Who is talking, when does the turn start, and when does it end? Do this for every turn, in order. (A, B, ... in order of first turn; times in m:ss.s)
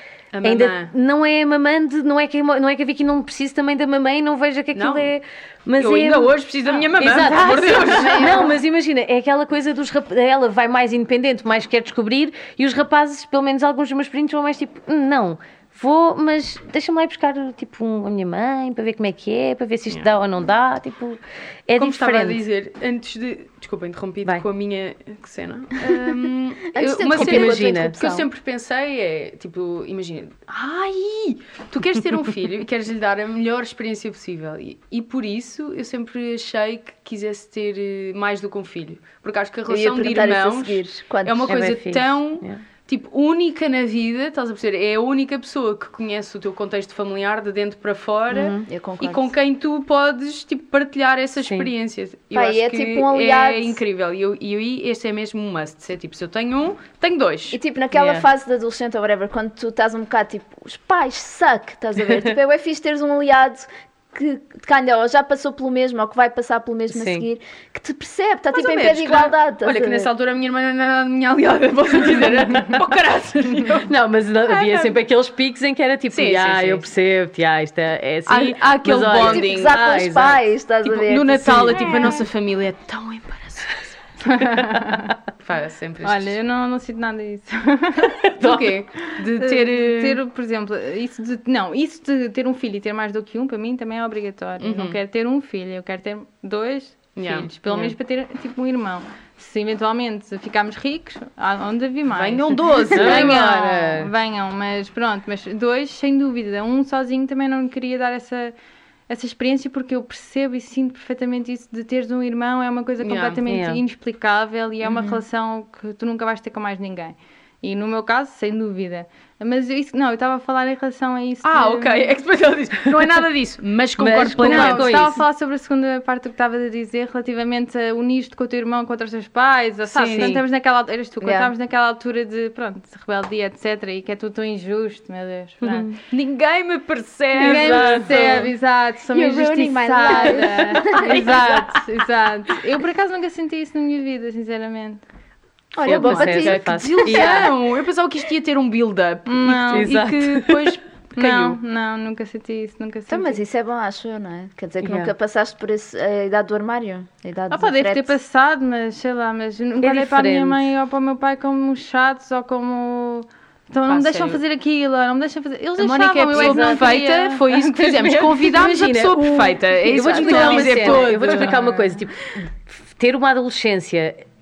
0:00.3-0:00.9 A
0:00.4-0:06.3 B
0:04.7-0:05.0 A
0:05.8-0:08.5 A
0:07.0-0:22.4 B
0:07.7-0:08.5 C
0:21.8-0:57.6 A
0:26.7-0:28.2 C
0:27.1-0:28.0 B
0:39.7-0:41.5 C
0:41.4-0:42.6 B
0:48.3-0:48.7 B
0:48.7-0:49.3 C
0:52.3-0:53.8 C
0:57.5-1:10.1 C
0:57.9-0:58.2 B
1:06.9-1:07.2 B
1:08.5-1:13.9 A
1:12.5-1:12.8 B
1:13.8-1:20.4 B
1:14.4-1:15.0 A
1:16.1-1:16.8 A
1:18.3-1:19.8 A
1:19.2-1:22.0 C
1:20.8-1:24.0 A
1:24.2-1:25.1 D
1:24.6-1:25.0 B
1:25.4-1:26.4 A
1:26.0-1:28.2 D
1:28.2-1:28.8 B
1:28.4-1:30.2 A
1:29.4-1:48.5 D
1:34.6-1:35.0 A
1:37.2-1:37.8 A
1:42.1-1:43.4 A
1:42.9-1:44.1 B
1:49.1-2:02.1 D
1:53.0-1:53.4 A
1:53.5-1:53.8 B
1:54.8-1:55.2 C
2:01.4-2:05.1 A
2:04.0-2:05.2 B
2:04.1-2:15.9 D
2:09.9-2:10.4 B
2:09.9-2:10.4 A
2:11.2-2:11.5 C
2:15.6-2:15.9 B
2:16.1-2:18.5 A
2:17.4-2:18.5 B
2:17.4-2:25.0 D
2:19.1-2:21.2 C
2:21.1-2:21.6 B
2:25.7-2:27.2 C
2:25.8-2:31.6 A
2:25.8-2:27.6 B
2:29.2-2:30.0 D
2:29.6-2:30.8 B
2:31.2-2:33.4 D
2:33.1-2:38.2 C
2:34.8-2:35.1 B
2:37.5-2:48.0 D
2:39.8-2:40.7 B
2:43.9-2:44.4 A
2:45.8-2:51.6 A
2:46.3-2:47.0 B
2:47.8-2:54.2 B
2:50.0-2:52.0 D